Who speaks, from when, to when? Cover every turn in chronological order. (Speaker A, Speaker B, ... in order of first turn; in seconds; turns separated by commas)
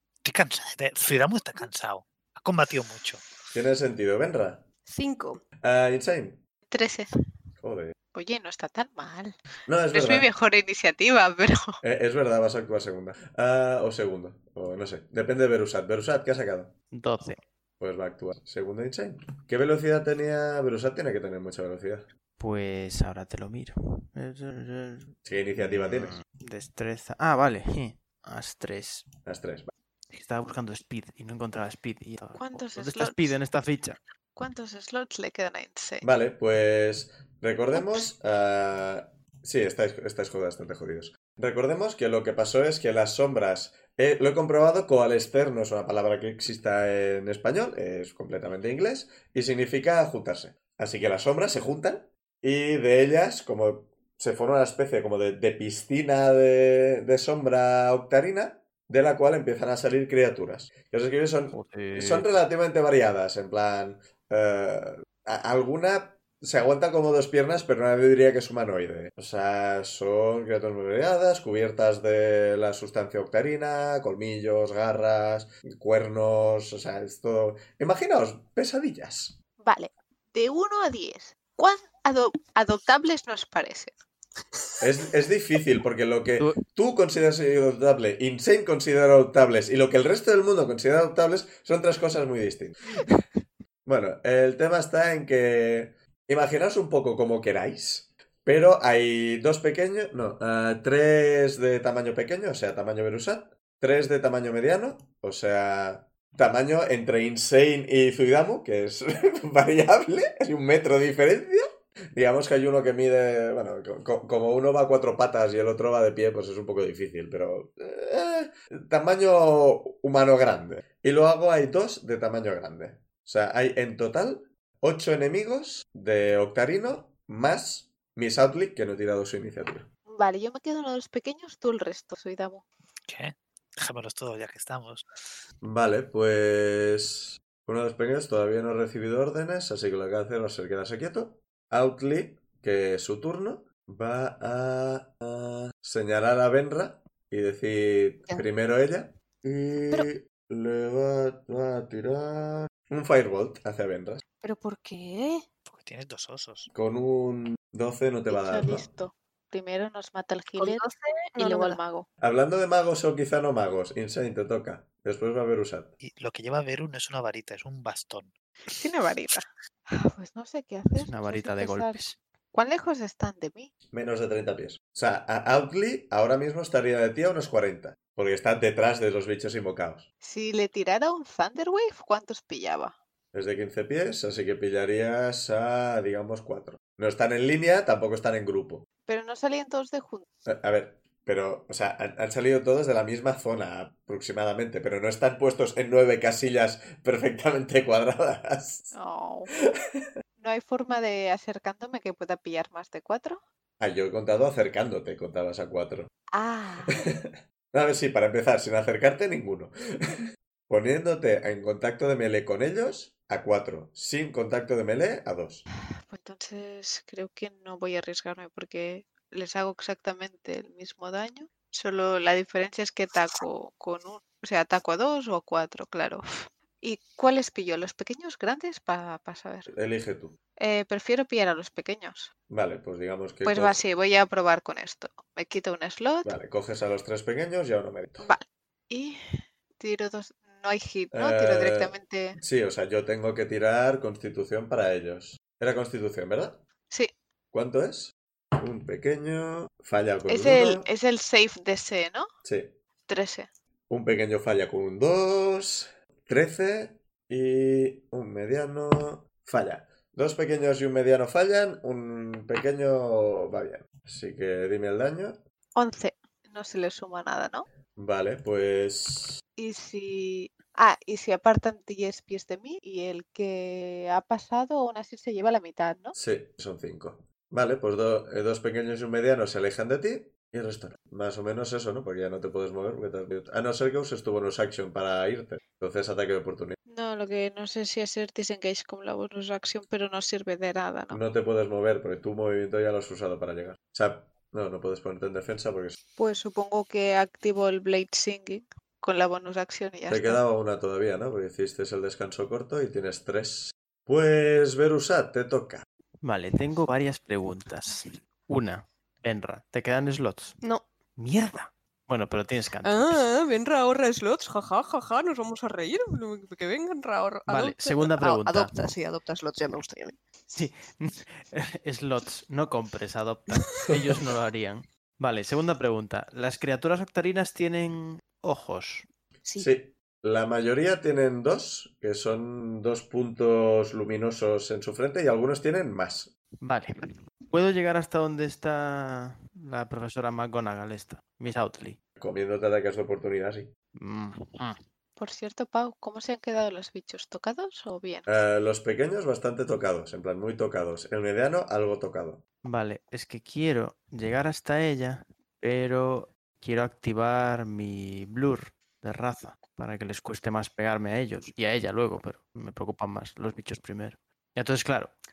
Speaker A: 0.2-3.2, Speaker B: 3.5-4.6, Speaker C: 4.9-5.4, Speaker B: 5.6-6.4, Speaker D: 6.7-7.1, Speaker B: 7.6-7.9, Speaker D: 8.1-9.3, Speaker B: 9.7-10.3, Speaker D: 9.9-11.8, Speaker B: 11.8-16.7, Speaker E: 16.9-17.4, Speaker B: 17.8-22.1, Speaker E: 22.4-29.1, Speaker B: 25.2-26.1, Speaker B: 29.2-29.7, Speaker E: 30.1-34.0, Speaker D: 32.4-33.4, Speaker D: 34.4-36.0, Speaker B: 36.0-79.3, Speaker E: 61.5-62.3, Speaker D: 79.6-83.9, Speaker B: 84.8-92.8, Speaker B: 93.8-129.9, Speaker D: 130.1-132.6, Speaker A: 133.1-135.1, Speaker B: 135.6-154.2, Speaker C: 154.4-155.4, Speaker A: 155.7-156.7, Speaker B: 156.7-158.9, Speaker D: 158.3-160.8, Speaker C: 160.6-161.8, Speaker D: 161.4-162.1, Speaker B: 162.2-165.9, Speaker A: 166.0-168.3, Speaker D: 168.7-172.0, Speaker E: 170.9-172.2, Speaker D: 172.5-173.7, Speaker B: 173.9-180.1, Speaker D: 180.2-182.9, Speaker B: 183.3-188.8, Speaker D: 189.1-190.2, Speaker B: 190.4-198.9, Speaker D: 198.9-199.5, Speaker B: 199.8-200.1, Speaker D: 200.4-203.4, Speaker B: 203.8-206.1, Speaker D: 206.3-207.1, Speaker B: 206.9-215.7, Speaker D: 216.1-229.7, Speaker B: 229.7-230.3, Speaker D: 230.6-232.3, Speaker B: 232.5-233.8, Speaker D: 233.4-236.3, Speaker B: 236.2-238.3, Speaker D: 238.2-239.2, Speaker D: 239.8-242.4, Speaker B: 241.1-246.6, Speaker B: 247.5-250.9, Speaker D: 250.3-252.3, Speaker B: 252.4-252.7, Speaker D: 253.1-253.5, Speaker B: 253.9-265.4, Speaker D: 265.8-267.6, Speaker B: 267.9-269.4, Speaker D: 269.6-276.1, Speaker B: 276.1-286.8, Speaker D: 286.9-291.2, Speaker B: 291.1-296.0, Speaker D: 296.2-300.4, Speaker B: 300.1-305.8, Speaker E: 306.2-310.6, Speaker E: 311.2-313.2, Speaker C: 312.8-320.2, Speaker E: 317.5-318.7, Speaker E: 320.5-329.1, Speaker B: 329.5-336.3, Speaker E: 336.6-336.9, Speaker E: 337.5-342.0, Speaker B: 342.2-343.7, Speaker E: 343.9-344.8, Speaker D: 345.2-348.2, Speaker B: 348.2-352.4, Speaker E: 352.6-365.1